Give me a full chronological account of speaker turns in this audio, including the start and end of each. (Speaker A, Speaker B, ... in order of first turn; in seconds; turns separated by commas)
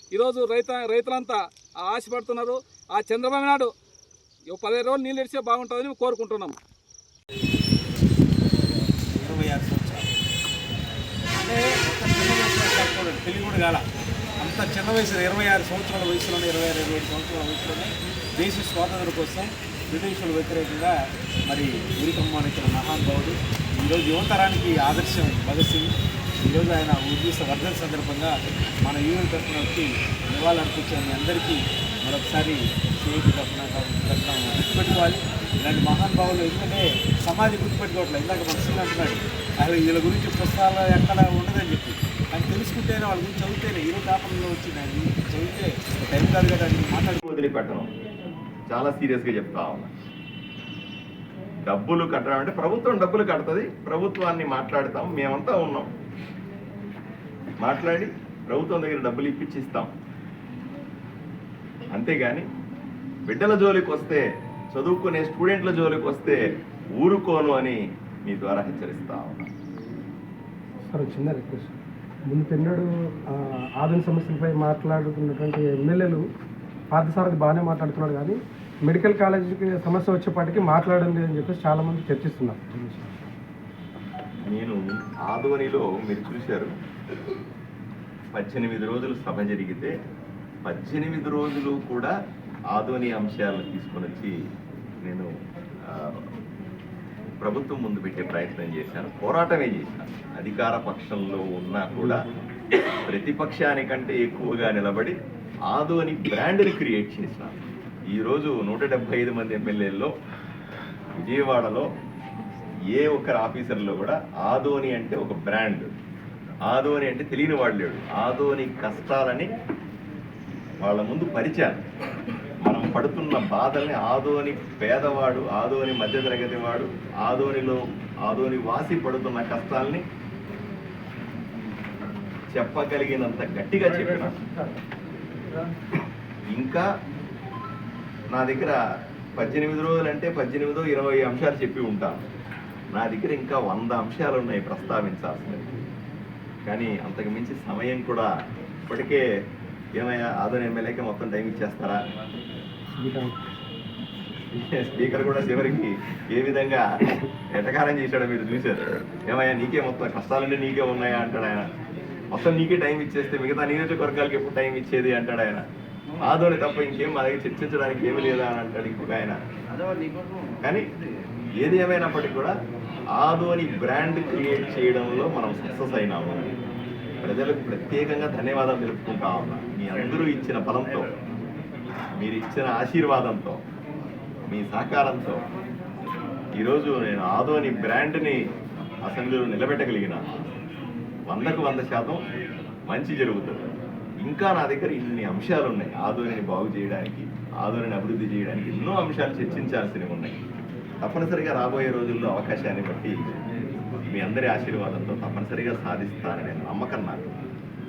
Speaker A: 0.1-3.7, Speaker A: 4.5-6.5, Speaker B: 9.1-10.1, Speaker B: 11.4-13.8, Speaker B: 14.4-20.9, Speaker B: 21.5-47.2, Speaker C: 47.2-47.9, Speaker C: 48.7-49.9, Speaker C: 51.6-55.9, Speaker C: 57.6-59.9, Speaker C: 61.9-62.4, Speaker C: 63.3-64.2, Speaker C: 64.7-66.4, Speaker C: 67.0-69.5, Speaker D: 70.9-71.7, Speaker D: 72.3-76.2, Speaker D: 76.9-83.1, Speaker C: 84.5-84.8, Speaker C: 85.3-86.7, Speaker C: 88.3-89.9, Speaker C: 90.6-92.1, Speaker C: 92.7-94.3, Speaker C: 95.0-95.3, Speaker C: 97.4-102.2, Speaker C: 103.1-105.2, Speaker C: 105.7-107.6, Speaker C: 108.1-110.1, Speaker C: 111.2-111.8, Speaker C: 112.9-115.9, Speaker C: 116.7-119.5, Speaker C: 120.8-121.8, Speaker C: 122.6-130.0, Speaker C: 132.5-134.4, Speaker D: 134.4-134.7, Speaker C: 136.5-136.8, Speaker C: 138.3-138.8, Speaker C: 139.3-142.2, Speaker C: 142.9-145.7, Speaker C: 146.7-148.3, Speaker C: 148.9-149.2, Speaker C: 150.0-152.0, Speaker D: 153.0-153.4, Speaker C: 154.5-156.8, Speaker C: 157.5-161.6, Speaker C: 162.3-165.6, Speaker C: 166.2-169.3, Speaker C: 171.6-172.5, Speaker C: 173.1-176.5, Speaker C: 177.2-181.1, Speaker C: 182.2-183.6, Speaker C: 184.5-185.4, Speaker C: 186.6-188.4, Speaker C: 189.1-190.2, Speaker C: 191.3-192.2, Speaker C: 192.9-193.7, Speaker C: 194.2-200.3, Speaker C: 201.0-203.1, Speaker C: 204.0-207.3